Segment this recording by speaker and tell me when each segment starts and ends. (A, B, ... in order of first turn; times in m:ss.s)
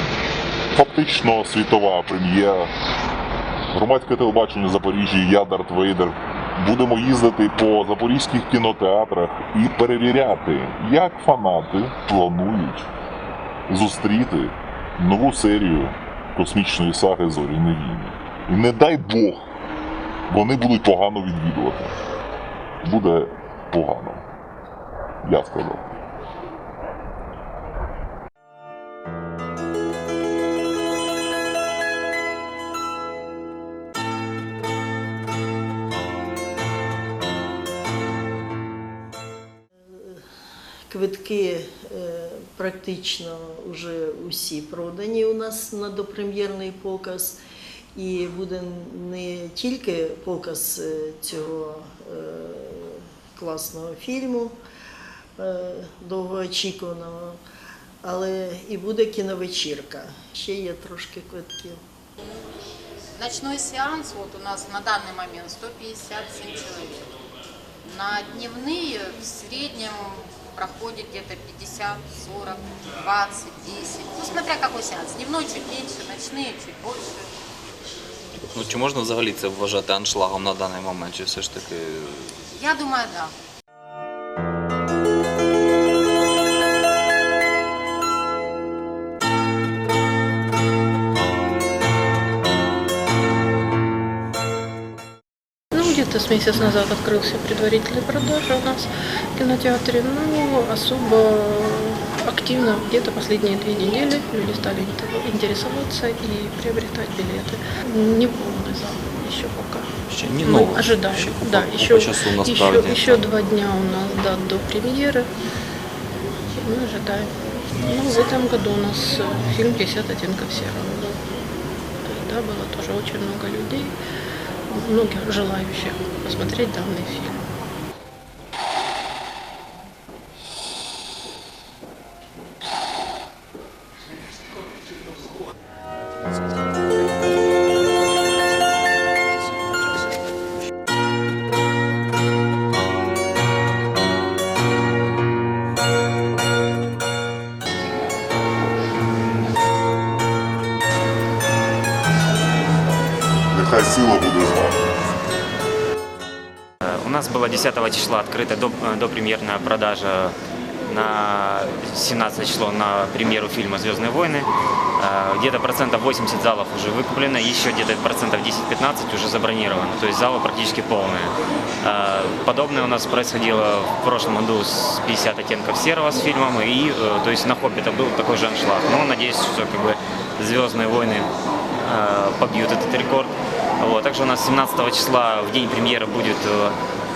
0:00.7-0:02.7 A
0:03.7-0:12.9 A
0:13.7-0:19.5 A
0:20.3-0:22.0 A
0:22.8-0:24.2 A
0:25.2-0:25.9 A
0:40.9-0:47.4 B
0:48.0-0:54.6 B
0:55.4-0:57.4 B
0:58.0-1:01.8 B
1:03.2-1:07.1 C
1:07.8-1:17.3 C
1:18.5-1:22.4 D
1:22.6-1:23.3 C
1:35.7-1:49.9 E
1:50.1-1:53.2 D
1:50.6-1:55.3 E
1:56.5-1:57.3 E
1:57.8-2:01.2 E
2:02.1-2:03.9 E
2:04.7-2:07.4 E
2:33.5-2:34.8 A
2:36.9-2:40.4 F
2:40.9-3:01.3 F
3:01.8-3:06.8 F